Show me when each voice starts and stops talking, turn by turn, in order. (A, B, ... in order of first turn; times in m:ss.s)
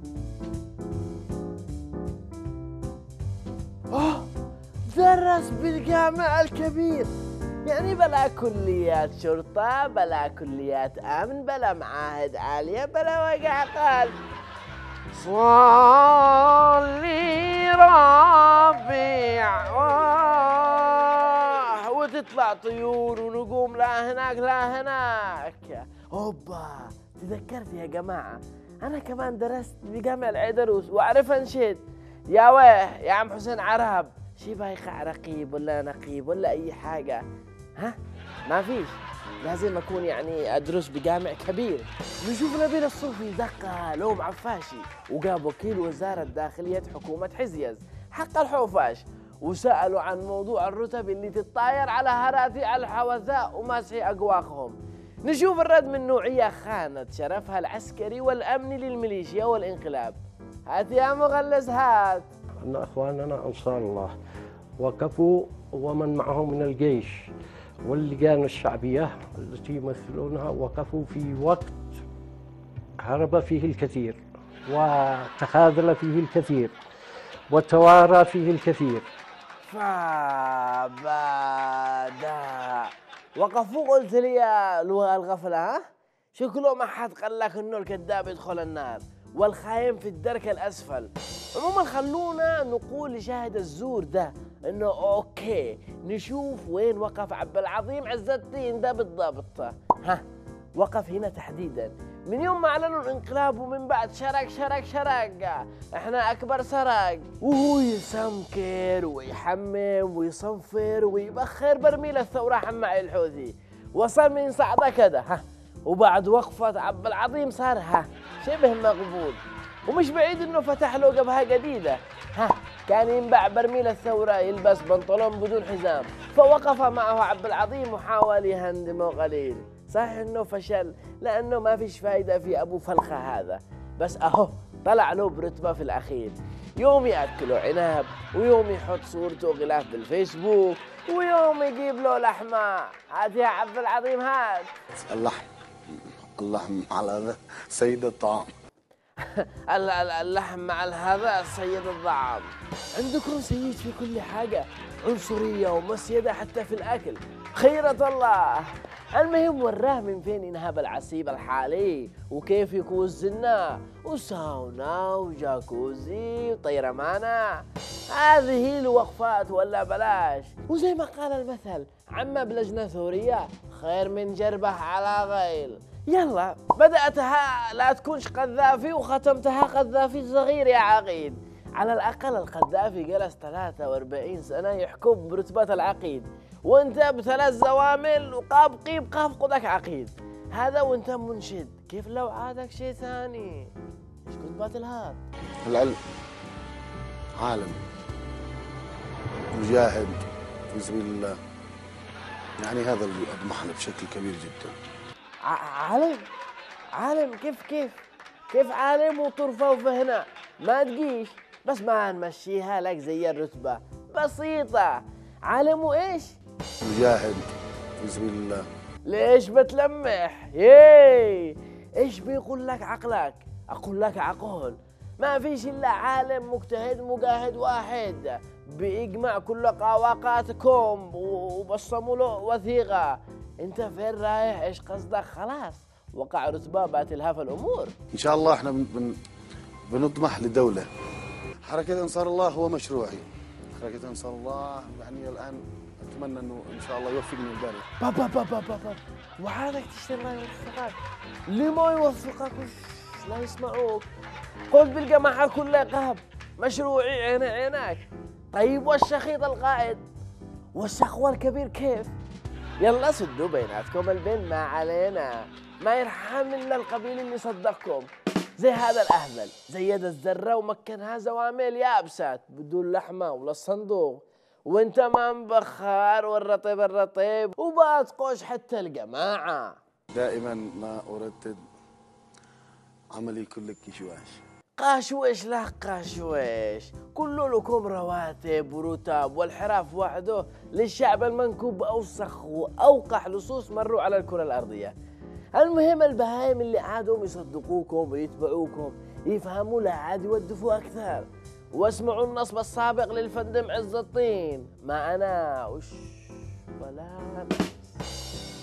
0:03.9-0:04.3 A
0:04.9-0:07.1 A
0:07.6-0:14.1 A
0:15.1-0:37.2 A
0:38.5-1:00.2 A
1:00.7-1:02.2 A
1:02.6-1:04.2 B
1:04.8-1:07.3 B
1:07.8-1:11.8 B
1:13.0-1:16.7 B
1:17.5-1:19.1 B
1:19.6-1:25.8 A
1:26.3-1:40.2 A
1:40.8-2:24.7 A
2:25.0-2:25.5 C
2:26.4-2:28.5 C
2:29.2-3:13.7 A
3:14.2-3:15.2 A
3:15.6-3:16.0 C
3:17.4-3:17.8 C
3:19.5-3:20.2 C
3:20.7-3:21.4 C
3:22.6-3:24.7 C
3:25.4-3:26.2 A
3:27.0-3:36.4 A
3:36.8-3:37.4 C
3:38.0-3:38.6 C
3:39.0-3:57.9 A
3:58.1-3:59.1 C
3:59.9-4:00.9 C
4:01.7-4:03.2 C
4:03.8-4:07.8 C
4:08.0-4:11.0 A
4:11.5-4:14.1 A
4:14.7-4:20.0 A
4:20.7-4:22.1 A
4:22.8-4:28.1 A
4:28.6-4:39.8 A
4:40.1-4:41.6 C
4:43.1-4:44.4 C
4:44.8-4:54.9 A
4:55.6-5:07.8 A